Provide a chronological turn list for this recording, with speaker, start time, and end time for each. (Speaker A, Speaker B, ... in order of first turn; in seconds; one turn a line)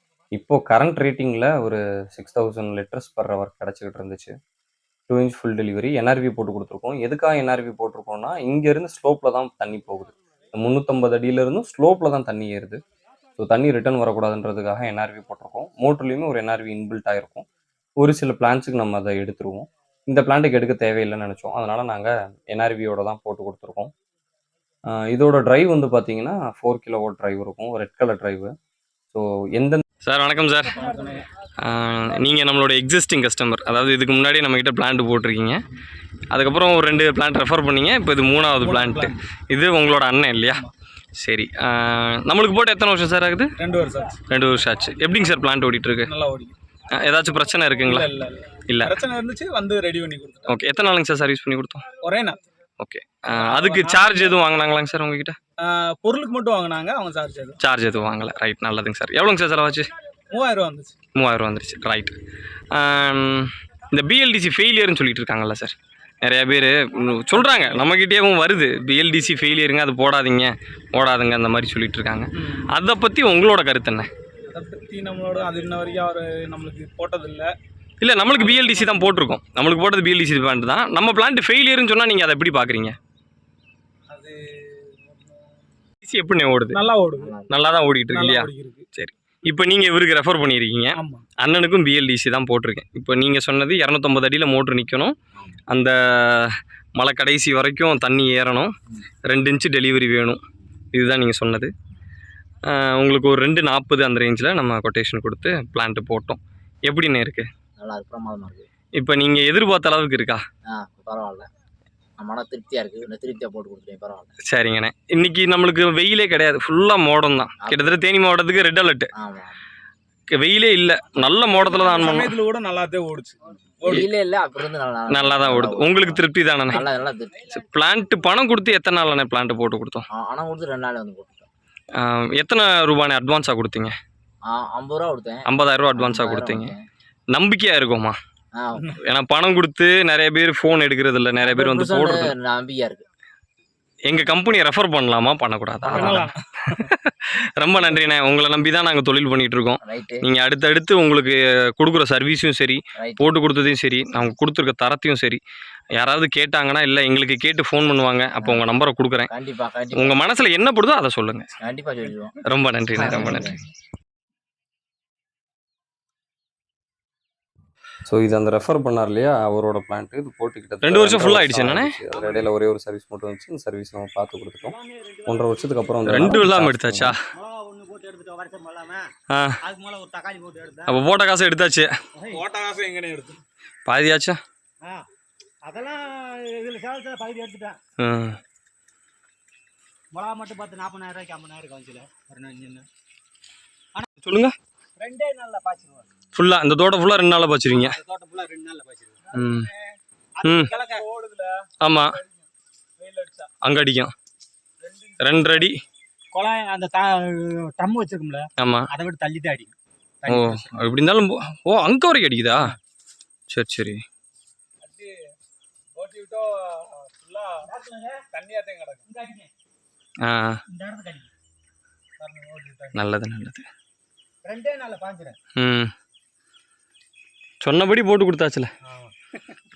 Speaker A: 0.3-4.3
Speaker A: 5.1-12.8
Speaker A: 13.4-17.5
Speaker A: 18.0-23.9
Speaker A: 25.0-28.5
Speaker A: 29.1-29.8
Speaker B: 30.0-30.9
Speaker C: 30.8-31.3
Speaker D: 30.9-31.1
Speaker B: 31.6-35.6
Speaker B: 36.3-40.6
Speaker C: 38.6-39.2
Speaker B: 41.2-43.5
Speaker C: 43.6-44.2
Speaker B: 44.3-46.1
Speaker C: 46.0-46.5
Speaker B: 46.9-48.1
Speaker C: 47.8-50.6
Speaker B: 48.7-49.0
Speaker B: 50.5-51.9
Speaker C: 52.0-52.4
Speaker B: 52.8-55.3
Speaker C: 53.3-54.4
Speaker C: 55.6-57.6
Speaker B: 57.6-59.9
Speaker C: 60.3-61.0
Speaker B: 61.1-62.2
Speaker B: 62.7-74.1
Speaker C: 67.3-67.9
Speaker C: 72.4-72.7
Speaker C: 74.5-77.5
Speaker B: 78.0-83.0
Speaker C: 78.3-79.1
Speaker C: 84.1-85.3
Speaker B: 86.0-86.8
Speaker C: 86.7-87.4
Speaker E: 87.2-87.5
Speaker B: 87.5-95.2
Speaker C: 88.1-88.8
Speaker C: 90.9-91.3
Speaker B: 95.7-98.7
Speaker B: 99.3-100.4
Speaker B: 100.9-101.7
Speaker B: 102.7-107.5
Speaker E: 107.8-108.7
Speaker B: 109.0-110.4
Speaker E: 110.7-111.5
Speaker E: 112.2-114.3
Speaker B: 114.5-119.1
Speaker E: 117.6-118.1
Speaker E: 119.2-119.6
Speaker B: 120.4-122.3
Speaker C: 121.3-124.1
Speaker E: 123.8-127.5
Speaker B: 125.1-126.9
Speaker B: 127.5-130.1
Speaker E: 130.1-131.5
Speaker B: 132.0-133.9
Speaker E: 134.5-136.8
Speaker B: 135.5-136.8
Speaker B: 137.3-138.2
Speaker E: 138.5-138.9
Speaker B: 139.0-142.3
Speaker E: 141.4-143.0
Speaker B: 144.1-146.1
Speaker A: 145.9-146.3
Speaker C: 145.9-146.9
Speaker E: 146.0-146.2
Speaker B: 146.7-155.4
Speaker E: 149.8-150.2
Speaker E: 153.0-153.3
Speaker B: 156.0-159.3
Speaker E: 158.4-158.7
Speaker E: 159.3-160.2
Speaker B: 159.9-161.5
Speaker E: 161.6-162.4
Speaker B: 162.5-163.5
Speaker E: 162.9-163.6
Speaker A: 168.1-177.2
Speaker B: 170.8-172.0
Speaker D: 174.6-176.4
Speaker B: 176.1-177.2
Speaker D: 177.3-179.1
Speaker D: 179.6-181.0
Speaker B: 180.9-181.9
Speaker D: 182.2-182.4
Speaker C: 182.3-183.4
Speaker B: 183.9-184.4
Speaker D: 185.7-187.8
Speaker B: 188.0-188.4
Speaker D: 190.1-192.8
Speaker B: 194.2-194.5
Speaker D: 195.0-196.1
Speaker B: 196.3-198.0
Speaker D: 197.7-199.7
Speaker B: 199.3-199.7
Speaker D: 200.4-201.1
Speaker B: 200.4-200.8
Speaker C: 200.8-201.7
Speaker B: 201.8-202.2
Speaker C: 203.0-203.4
Speaker B: 203.6-204.1
Speaker D: 204.9-205.7
Speaker B: 205.2-205.8
Speaker D: 206.3-211.0
Speaker B: 208.6-208.9
Speaker B: 210.3-212.6
Speaker B: 213.5-214.0
Speaker C: 214.8-215.2
Speaker C: 215.9-217.7
Speaker D: 217.7-218.3
Speaker C: 218.3-219.1
Speaker D: 219.1-219.5
Speaker B: 220.2-220.6
Speaker D: 220.7-221.3
Speaker D: 222.2-223.0
Speaker B: 222.9-223.6
Speaker D: 224.4-225.4
Speaker B: 225.6-225.9
Speaker B: 227.6-228.7
Speaker D: 228.9-229.1